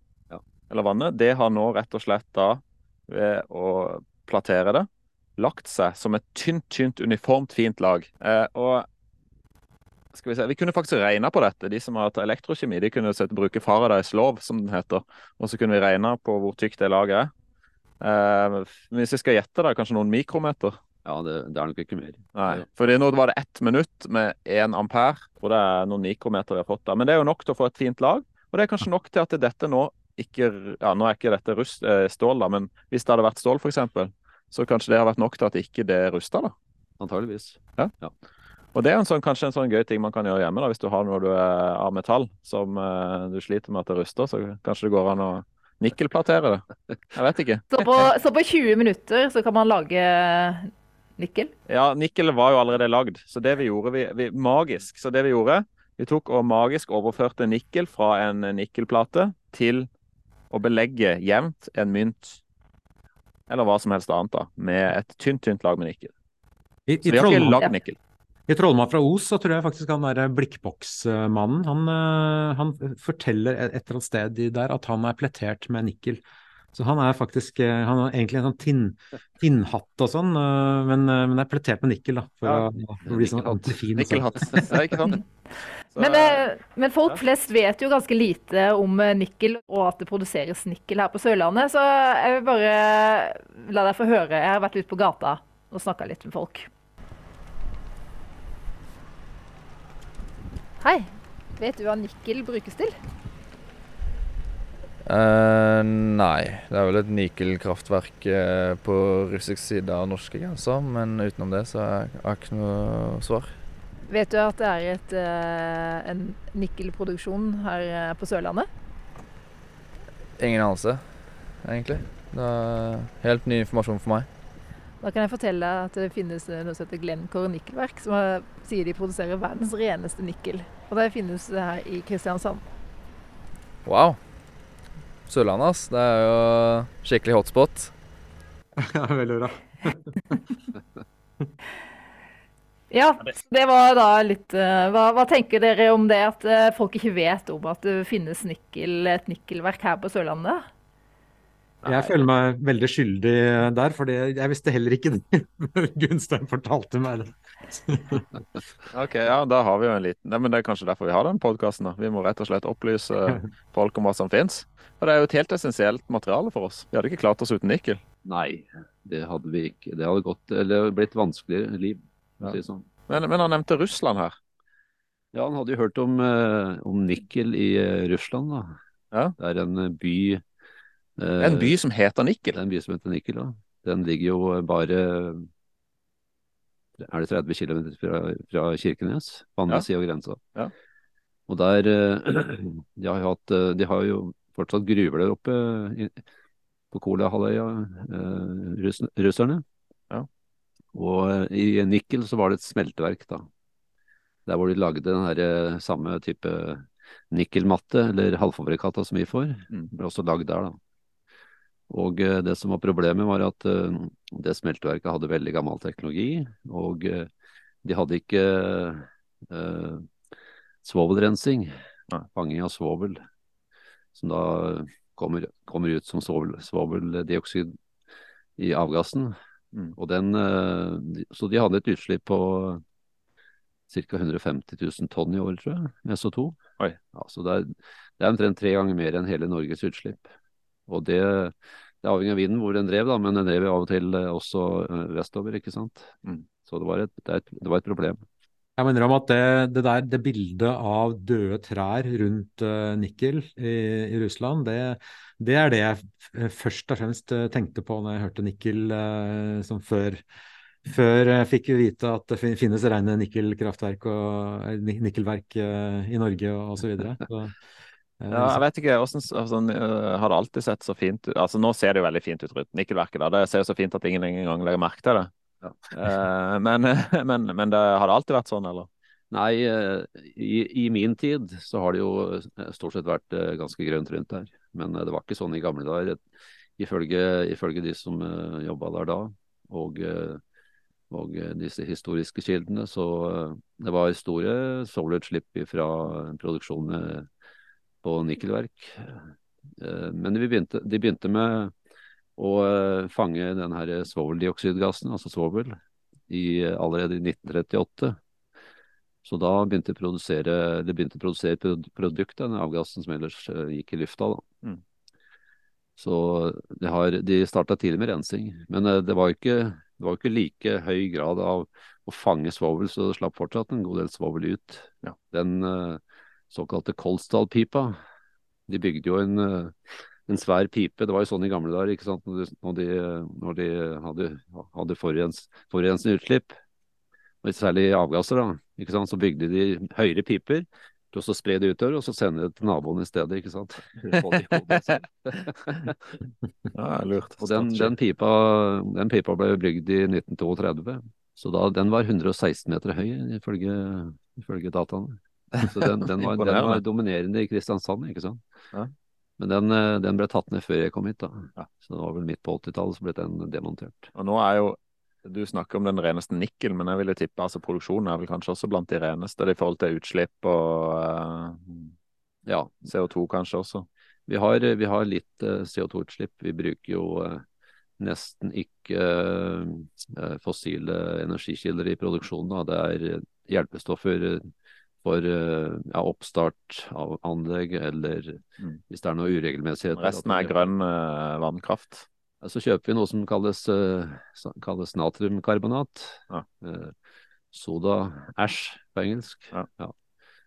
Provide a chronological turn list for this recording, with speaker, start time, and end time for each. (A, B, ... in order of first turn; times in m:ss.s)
0:00.7-0:08.9 A
0:10.1-0:17.3 A
0:18.0-0:20.8 A
0:21.0-0:22.6 B
0:22.3-0:36.6 A
0:37.0-0:38.1 B
0:38.7-0:48.1 A
0:47.7-0:51.5 C
0:51.7-0:59.9 A
1:00.5-1:02.4 A
1:03.5-1:06.1 A
1:06.9-1:07.7 D
1:07.0-1:08.0 A
1:08.5-1:16.2 D
1:16.7-1:24.8 D
1:23.1-1:23.7 B
1:23.9-1:25.2 A
1:25.9-1:26.5 A
1:26.0-1:36.7 C
1:40.8-1:43.0 C
1:45.0-1:53.5 E
1:54.1-1:58.7 C
2:00.4-2:04.3 E
2:05.0-2:12.6 C
2:13.8-2:14.2 E
2:15.3-2:17.9 E
2:18.8-2:20.4 D
2:22.9-2:30.6 C
2:31.8-2:32.1 A
2:31.8-2:38.3 D
2:38.9-2:48.0 A
2:48.2-2:52.9 B
2:52.4-2:54.3 A
2:55.3-2:58.7 B
2:59.4-3:00.4 B
3:01.2-3:01.7 B
3:01.4-3:02.6 A
3:02.5-3:05.5 B
3:07.0-3:10.4 B
3:11.5-3:16.2 B
3:16.9-3:19.6 B
3:20.9-3:23.5 B
3:24.4-3:30.8 B
3:31.9-3:37.3 B
3:37.8-3:40.1 B
3:40.8-3:41.7 B
3:42.3-3:43.2 B
3:44.1-3:47.8 B
3:48.6-3:49.3 B
3:49.9-3:52.8 B
3:53.9-3:56.6 B
3:57.1-4:00.3 B
4:00.9-4:08.2 B
4:08.8-4:20.2 D
4:20.8-4:27.6 D
4:28.2-4:28.6 D
4:28.3-4:35.3 A
4:35.9-4:38.9 A
4:39.3-4:46.2 B
4:46.8-4:50.4 B
4:51.1-4:57.3 B
4:58.0-5:01.7 B
5:02.4-5:05.8 B
5:06.3-5:08.2 B
5:09.2-5:14.4 B
5:16.0-5:26.0 B
5:26.5-5:28.0 B
5:28.7-5:36.5 B
5:37.4-5:46.0 B
5:46.7-5:47.9 A
5:47.4-5:58.4 B
5:55.6-5:56.8 A
5:59.4-6:04.1 B
6:04.1-6:11.9 A
6:12.4-6:12.8 B
6:12.8-6:13.9 A
6:14.3-6:17.4 B
6:18.0-6:24.5 B
6:25.0-6:30.6 B
6:30.0-6:32.0 A
6:32.4-6:36.9 B
6:37.5-6:39.9 B